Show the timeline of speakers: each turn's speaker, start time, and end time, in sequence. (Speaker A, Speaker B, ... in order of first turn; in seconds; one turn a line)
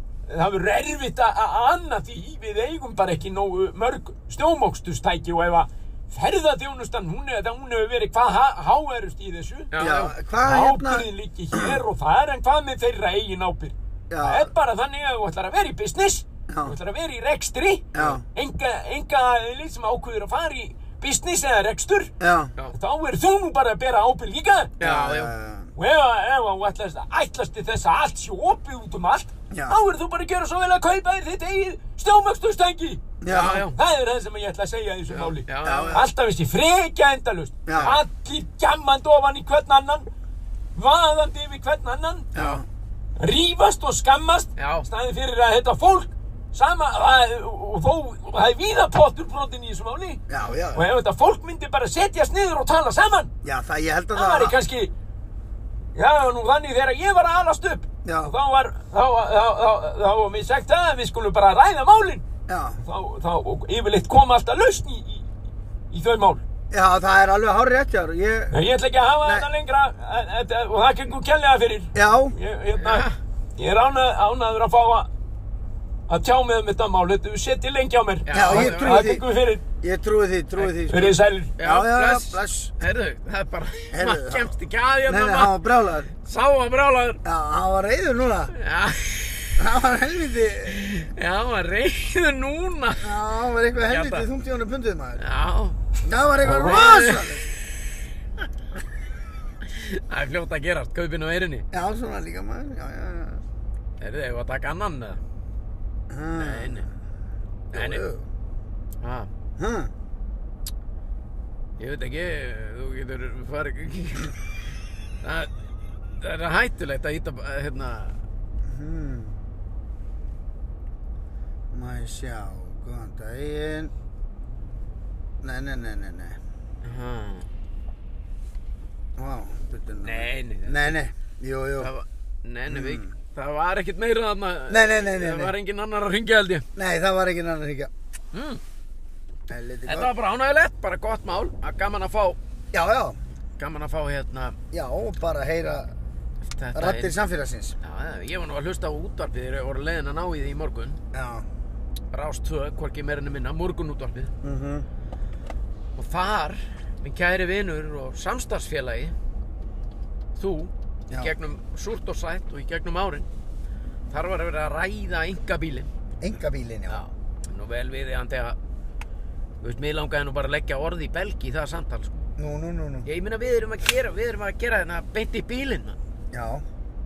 Speaker A: 0.3-9.7
Speaker B: 9.7-10.2
Speaker C: 9.8-11.8
Speaker A: 10.4-22.1
Speaker C: 14.1-14.5
Speaker C: 16.5-16.8
Speaker C: 17.9-18.2
Speaker C: 22.2-22.5
Speaker A: 22.7-24.8
Speaker B: 24.8-25.3
Speaker C: 24.8-25.7
Speaker A: 25.8-40.1
Speaker C: 29.5-29.8
Speaker C: 33.2-33.6
Speaker B: 33.3-33.8
Speaker B: 35.1-36.0
Speaker C: 35.6-36.1
Speaker C: 37.7-38.0
Speaker A: 40.7-42.4
Speaker C: 42.3-42.7
Speaker B: 42.4-42.6
Speaker A: 43.2-50.2
Speaker B: 44.6-44.9
Speaker C: 50.3-50.9
Speaker A: 50.7-53.3
Speaker C: 53.4-54.6
Speaker A: 54.1-54.9
Speaker A: 56.0-62.2
Speaker C: 58.0-58.3
Speaker C: 62.5-62.8
Speaker A: 62.8-65.3
Speaker A: 65.9-66.4
Speaker C: 66.7-68.6
Speaker A: 68.5-75.1
Speaker C: 69.2-69.5
Speaker C: 72.0-72.4
Speaker B: 72.8-73.2
Speaker A: 76.1-79.6
Speaker B: 78.3-79.1
Speaker C: 78.3-79.2
Speaker C: 79.8-82.7
Speaker A: 80.8-81.5
Speaker B: 81.6-85.6
Speaker C: 83.9-84.5
Speaker C: 85.1-86.1
Speaker B: 86.1-87.2
Speaker C: 87.2-88.5
Speaker B: 88.5-89.6
Speaker C: 89.6-91.1
Speaker B: 90.7-93.2
Speaker C: 93.0-95.2
Speaker B: 93.8-94.3
Speaker B: 95.2-95.8
Speaker C: 96.0-97.5
Speaker B: 96.4-97.4
Speaker B: 99.6-101.7
Speaker C: 101.7-103.4
Speaker B: 104.0-105.2
Speaker C: 106.1-106.9
Speaker B: 106.4-106.9
Speaker B: 107.7-108.1
Speaker C: 107.7-108.3
Speaker B: 109.0-109.3
Speaker C: 109.6-109.9
Speaker B: 111.8-114.4
Speaker B: 115.2-115.5
Speaker B: 116.2-118.2
Speaker C: 118.6-119.4
Speaker C: 121.7-123.9
Speaker C: 125.4-126.4
Speaker B: 126.8-127.5
Speaker C: 129.2-131.9
Speaker B: 130.0-131.0
Speaker B: 131.8-136.7
Speaker C: 132.7-133.1
Speaker C: 134.7-135.6
Speaker C: 136.8-137.9
Speaker B: 138.3-138.6
Speaker C: 139.5-140.1
Speaker B: 139.9-142.4
Speaker C: 142.7-143.2
Speaker B: 143.6-144.6
Speaker C: 144.7-145.9
Speaker B: 146.4-147.2
Speaker C: 146.7-147.8
Speaker B: 147.8-151.0
Speaker C: 151.1-151.5
Speaker B: 152.1-154.3
Speaker C: 154.4-154.9
Speaker B: 156.0-159.2
Speaker B: 160.4-163.3
Speaker B: 164.1-165.9
Speaker C: 166.2-167.0
Speaker B: 166.9-168.6
Speaker B: 169.6-172.3
Speaker C: 172.4-173.1
Speaker B: 173.1-176.0
Speaker C: 176.3-176.7